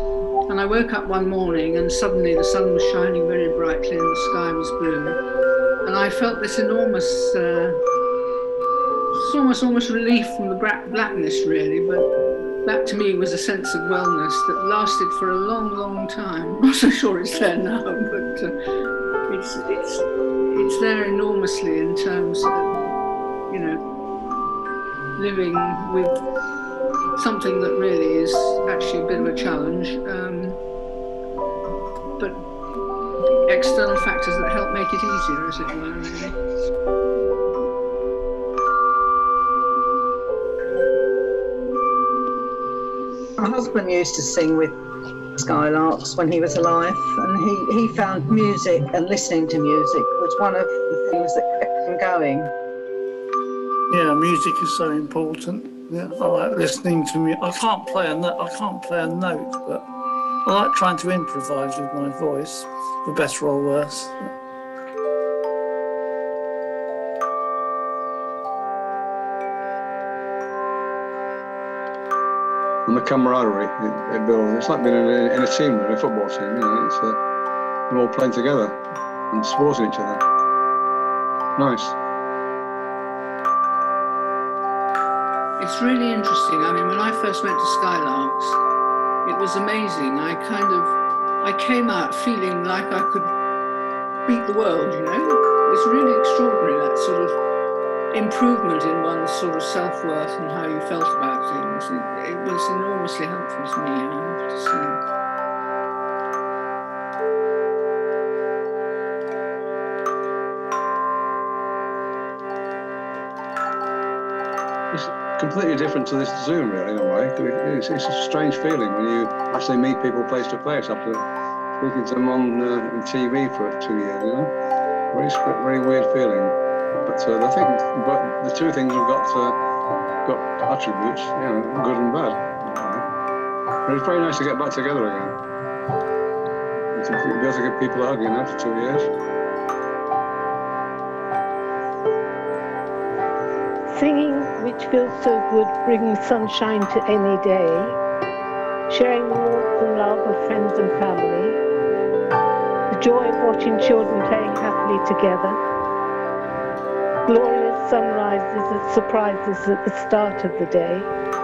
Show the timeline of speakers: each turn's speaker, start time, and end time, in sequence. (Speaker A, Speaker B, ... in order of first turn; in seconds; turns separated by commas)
Speaker A: 0.5-5.2, Speaker A: 5.8-7.8, Speaker A: 9.1-12.1, Speaker A: 12.7-18.5, Speaker A: 19.3-22.7, Speaker A: 23.5-23.8, Speaker A: 25.2-26.2, Speaker A: 27.1-30.6, Speaker A: 33.5-36.4, Speaker B: 43.4-44.8, Speaker B: 45.4-52.5, Speaker C: 53.9-59.9, Speaker C: 60.5-64.3, Speaker D: 72.9-77.2, Speaker D: 77.9-78.8, Speaker D: 79.3-80.2, Speaker D: 81.6-82.0, Speaker A: 85.6-88.6, Speaker A: 89.2-93.3, Speaker A: 94.3-97.4, Speaker A: 98.1-105.0, Speaker D: 114.9-121.3, Speaker D: 121.8-124.5, Speaker D: 125.1-129.6, Speaker D: 130.2-133.1, Speaker D: 133.9-135.4, Speaker D: 136.9-139.1, Speaker E: 143.9-148.0, Speaker E: 148.9-151.6, Speaker E: 152.9-155.6, Speaker E: 157.2-161.1